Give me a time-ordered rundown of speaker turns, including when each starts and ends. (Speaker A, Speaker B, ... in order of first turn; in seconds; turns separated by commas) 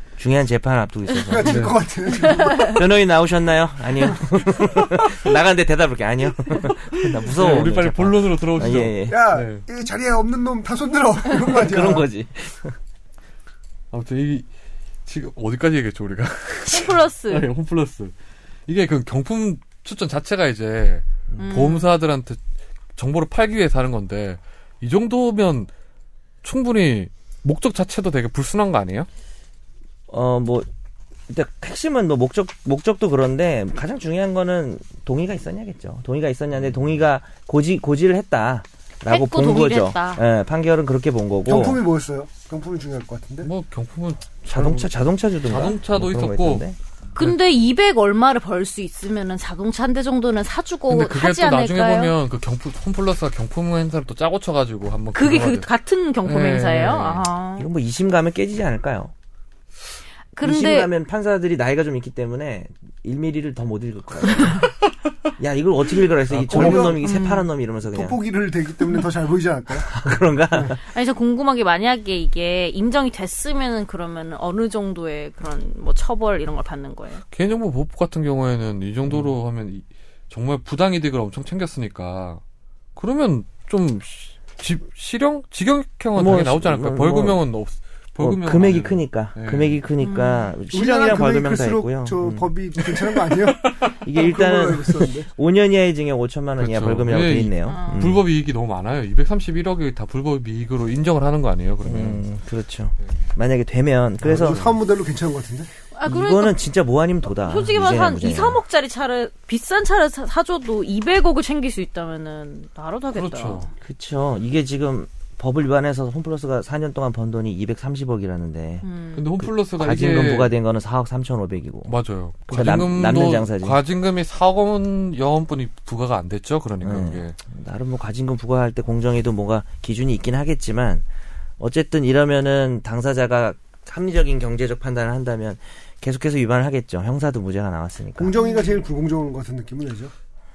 Speaker A: 0.2-1.7, Speaker B: 1.2-2.9, Speaker C: 1.4-1.8, Speaker D: 2.2-2.7, Speaker A: 2.6-9.2, Speaker C: 6.7-9.6, Speaker B: 9.1-12.1, Speaker A: 11.4-12.7, Speaker C: 13.9-14.5, Speaker C: 15.1-18.1, Speaker D: 16.7-17.5, Speaker C: 18.7-22.4, Speaker A: 21.3-21.6, Speaker D: 21.4-21.9, Speaker C: 22.9-25.7, Speaker C: 26.4-29.1, Speaker A: 30.1-30.7, Speaker A: 31.3-41.8, Speaker D: 39.1-40.2, Speaker B: 41.5-43.5, Speaker C: 43.4-44.9, Speaker A: 44.5-46.8, Speaker C: 45.4-46.6, Speaker D: 47.1-52.1, Speaker C: 50.9-55.7, Speaker D: 55.1-57.7, Speaker C: 56.2-57.3, Speaker A: 57.6-59.1, Speaker D: 60.3-60.9, Speaker A: 60.4-64.7, Speaker A: 65.4-68.2, Speaker C: 66.3-66.7, Speaker B: 66.3-67.1, Speaker D: 66.5-67.5, Speaker B: 67.9-70.7, Speaker A: 69.8-70.8, Speaker D: 70.8-77.2, Speaker C: 77.3-82.4, Speaker C: 83.0-89.8, Speaker A: 86.2-87.4, Speaker A: 88.2-92.5, Speaker D: 90.0-90.5, Speaker B: 90.7-95.3, Speaker C: 93.2-94.0, Speaker A: 94.0-98.2, Speaker C: 96.6-102.2, Speaker D: 97.7-98.1, Speaker A: 101.8-104.6, Speaker C: 103.0-103.3, Speaker B: 104.2-105.7, Speaker C: 104.4-104.7, Speaker D: 105.9-106.6, Speaker A: 106.0-108.6, Speaker D: 107.4-113.7, Speaker C: 113.1-113.7, Speaker A: 113.8-118.8, Speaker D: 118.8-119.2, Speaker C: 119.2-120.5, Speaker A: 119.4-121.9, Speaker C: 121.9-127.3, Speaker A: 122.5-123.8, Speaker A: 126.8-131.1, Speaker A: 131.6-138.3, Speaker B: 138.2-140.1, Speaker D: 138.4-138.8